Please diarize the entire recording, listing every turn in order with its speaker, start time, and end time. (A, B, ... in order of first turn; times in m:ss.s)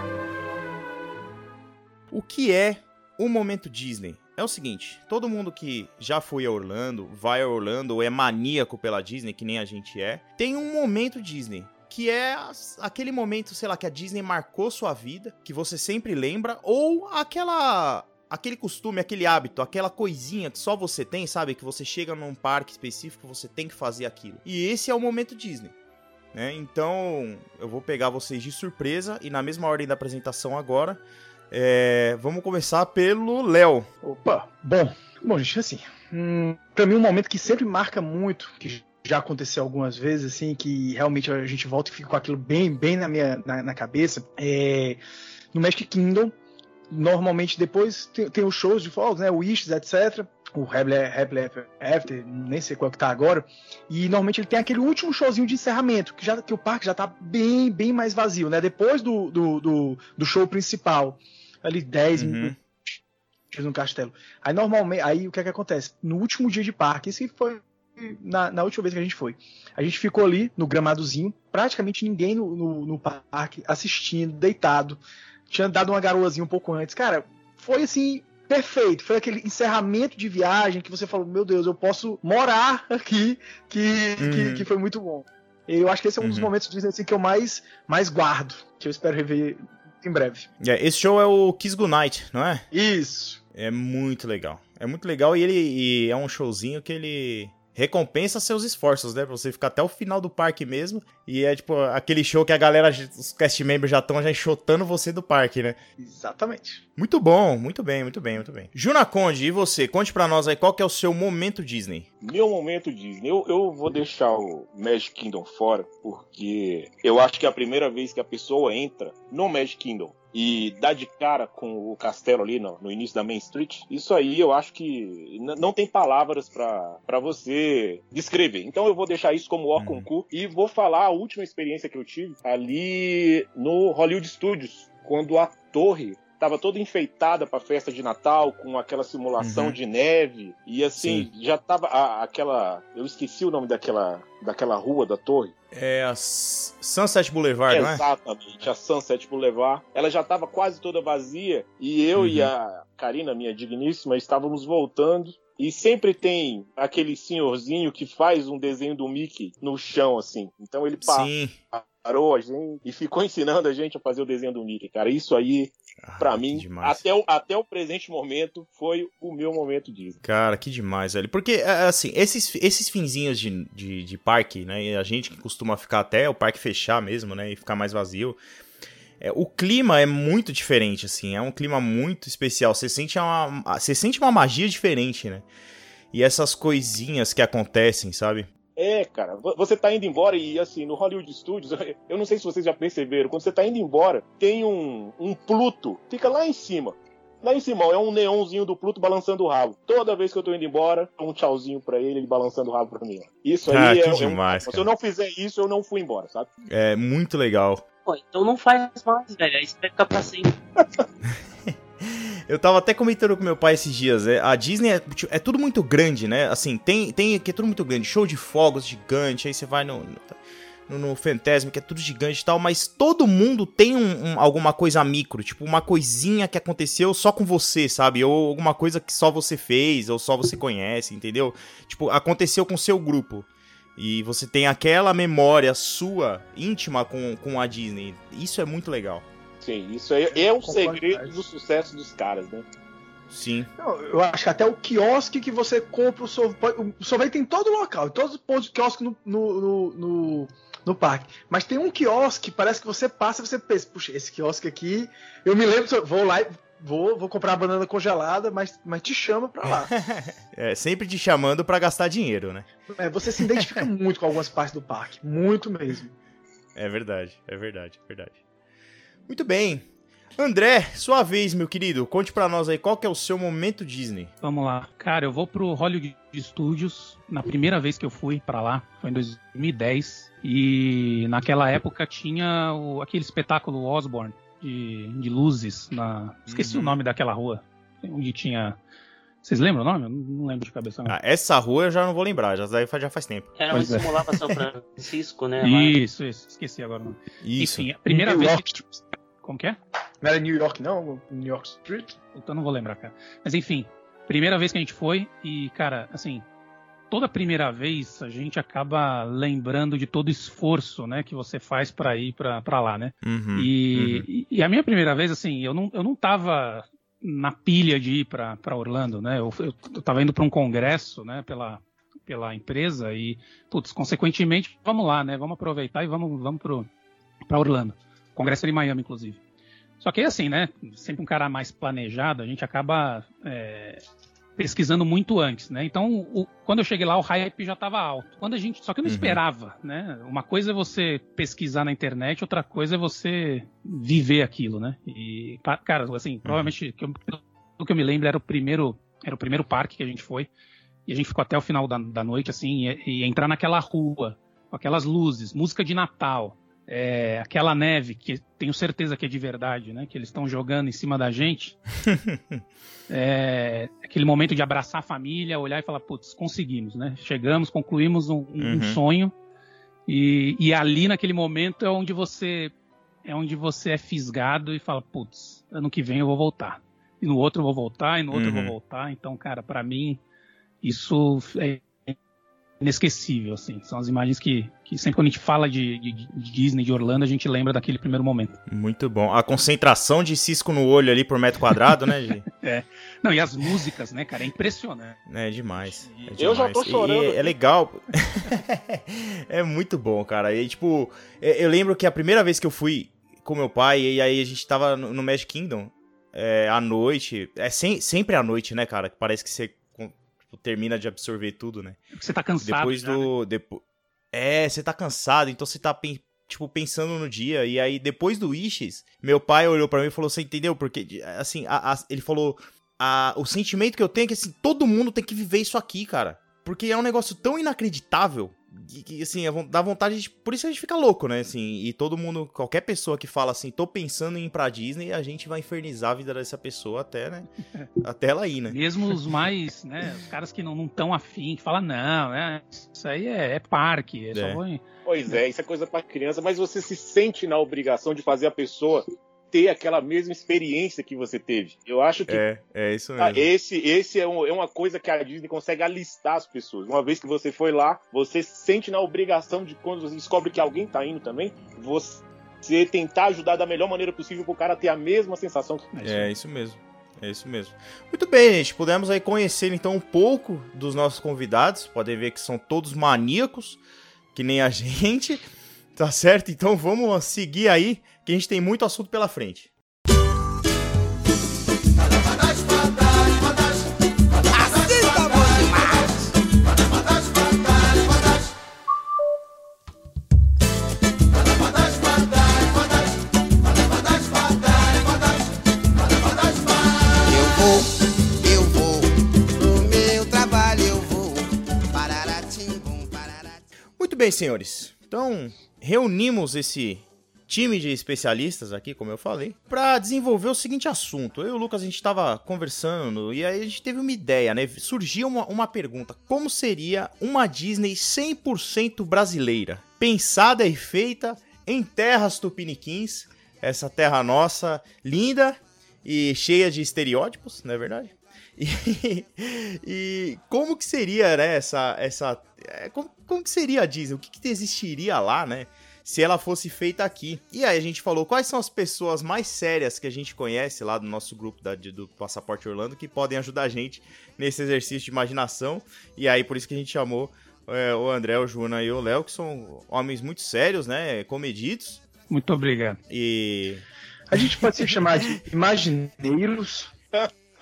0:02.1-0:25.7 A
0:26.3-0:31.0 A
0:31.5-0:33.9 A
0:34.0-0:45.0 B
0:45.5-0:46.4 B
0:46.9-1:02.9 B
1:02.1-1:02.6 A
1:03.5-1:30.5 B
1:24.2-1:24.6 A
1:26.2-1:26.5 A
1:30.6-1:32.6 A
1:32.7-1:33.4 B
1:33.5-1:45.8 A
1:46.0-1:46.8 B
1:47.0-1:52.0 A
1:52.2-2:25.5 C
2:09.8-2:10.1 A
2:19.4-2:19.8 A
2:21.0-2:21.3 A
2:25.7-2:28.0 A
2:27.7-2:50.2 C
2:32.2-2:32.5 A
2:41.0-2:41.5 A
2:46.0-2:47.0 A
2:50.2-2:58.4 A
2:59.2-3:05.4 A
3:06.1-3:08.5 A
3:08.8-3:26.5 C
3:23.7-3:24.9 A
3:26.7-3:27.8 A
3:28.0-3:30.5 D
3:31.7-3:40.3 A
3:40.9-3:59.2 A
3:59.6-4:02.6 C
4:00.6-4:01.4 B
4:03.3-4:03.7 A
4:03.8-4:19.9 B
4:19.9-4:22.6 A
4:22.9-4:26.1 B
4:23.6-4:23.8 A
4:26.8-4:28.4 A
4:29.3-4:29.8 A
4:30.4-4:34.3 A
4:34.4-4:48.8 E
4:46.5-4:47.0 A
4:49.4-4:51.1 E
4:51.0-4:53.5 A
4:53.6-4:56.0 D
4:53.7-4:54.5 E
4:55.6-4:58.7 E
4:57.4-4:57.9 A
4:58.1-4:59.0 B
4:59.4-4:59.8 E
5:00.2-5:02.2 B
5:02.3-5:06.4 E
5:07.1-5:26.9 E
5:13.2-5:14.2 A
5:27.5-5:29.4 E
5:30.0-5:34.0 E
5:34.6-5:50.5 E
5:39.0-5:39.4 A
5:46.4-5:46.7 A
5:51.1-6:01.8 E
6:02.0-6:02.6 A
6:03.1-6:09.3 E
6:08.6-6:09.0 A
6:10.1-6:12.7 E
6:13.2-6:20.2 E
6:18.3-6:18.7 A
6:20.8-6:22.1 E
6:22.8-6:28.6 E
6:28.7-6:32.4 A
6:32.6-6:35.2 E
6:35.3-6:52.0 A
6:35.8-6:36.3 E
6:36.4-6:37.5 C
6:52.1-6:53.3 E
6:52.6-7:17.5 A
7:18.0-7:19.2 A
7:18.7-7:24.8 E
7:24.3-7:24.6 A
7:25.0-7:32.4 C
7:32.3-7:33.5 A
7:33.2-7:46.0 C
7:46.0-7:46.2 E
7:46.0-7:53.8 A
7:54.3-7:55.4 A
7:56.0-7:59.7 A
8:04.5-8:06.2 F
8:17.2-8:17.9 F
8:18.4-8:23.6 F
8:24.0-9:12.0 A
9:12.3-9:13.0 E
9:13.1-9:13.8 A
9:14.3-9:16.9 B